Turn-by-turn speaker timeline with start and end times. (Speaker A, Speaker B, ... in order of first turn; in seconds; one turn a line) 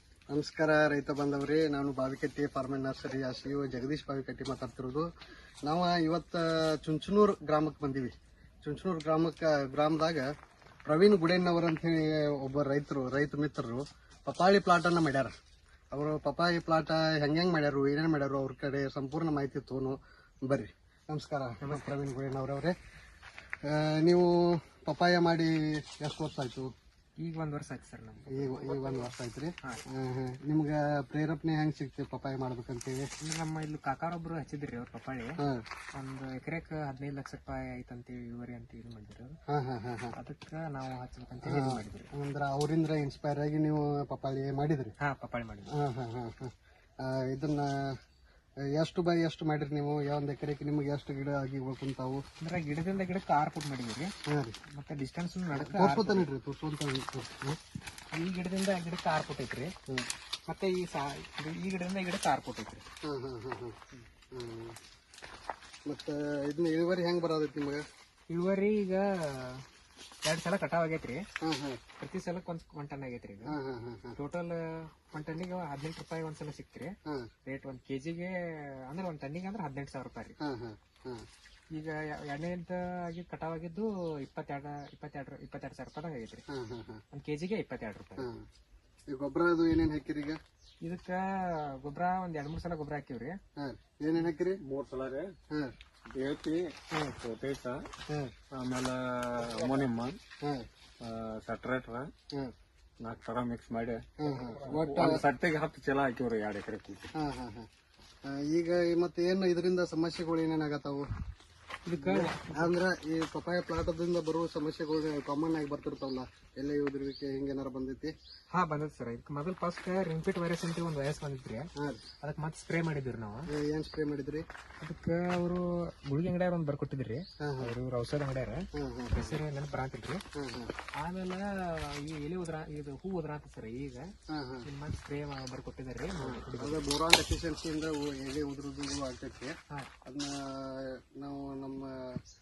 Speaker A: 0.3-5.1
Speaker A: 5.7-10.3
Speaker A: 10.9-15.3
Speaker A: 15.9-22.8
Speaker B: 21.6-21.9
Speaker A: 23.7-26.7
Speaker B: 27.2-28.8
Speaker A: 28.3-33.1
Speaker B: 33.2-35.4
Speaker B: 36.0-39.4
Speaker A: 39.5-40.1
Speaker B: 40.1-42.1
Speaker A: 41.4-44.9
Speaker B: 45.0-45.7
Speaker A: 45.7-48.0
Speaker A: 48.7-52.2
Speaker B: 52.4-54.1
Speaker A: 54.3-54.6
Speaker B: 54.7-56.3
Speaker A: 55.5-57.6
Speaker B: 58.1-59.7
Speaker B: 60.5-62.9
Speaker A: 63.0-63.8
Speaker A: 64.3-64.8
Speaker A: 65.9-67.8
Speaker B: 68.3-69.7
Speaker B: 70.2-71.2
Speaker A: 71.4-71.8
Speaker B: 72.0-73.6
Speaker A: 73.5-74.2
Speaker B: 74.2-77.0
Speaker B: 77.5-80.4
Speaker A: 80.4-81.3
Speaker B: 81.7-86.4
Speaker A: 86.5-87.0
Speaker B: 87.1-88.3
Speaker A: 88.2-88.5
Speaker A: 89.1-90.4
Speaker B: 90.8-93.4
Speaker A: 93.6-94.6
Speaker C: 94.6-95.3
Speaker C: 96.1-97.9
Speaker A: 98.1-98.3
Speaker C: 98.5-100.2
Speaker A: 100.4-100.7
Speaker C: 101.0-102.1
Speaker C: 103.0-104.0
Speaker A: 104.2-105.3
Speaker C: 104.7-107.1
Speaker A: 107.2-107.7
Speaker A: 108.2-111.1
Speaker B: 111.8-112.7
Speaker A: 112.0-118.2
Speaker B: 118.5-121.7
Speaker A: 121.8-122.0
Speaker B: 122.2-123.5
Speaker A: 123.5-124.5
Speaker B: 124.8-130.2
Speaker A: 127.4-127.8
Speaker A: 128.8-129.4
Speaker A: 130.4-130.7
Speaker B: 131.0-134.1
Speaker A: 134.3-134.7
Speaker B: 134.7-136.9
Speaker A: 136.2-139.6
Speaker A: 140.1-142.2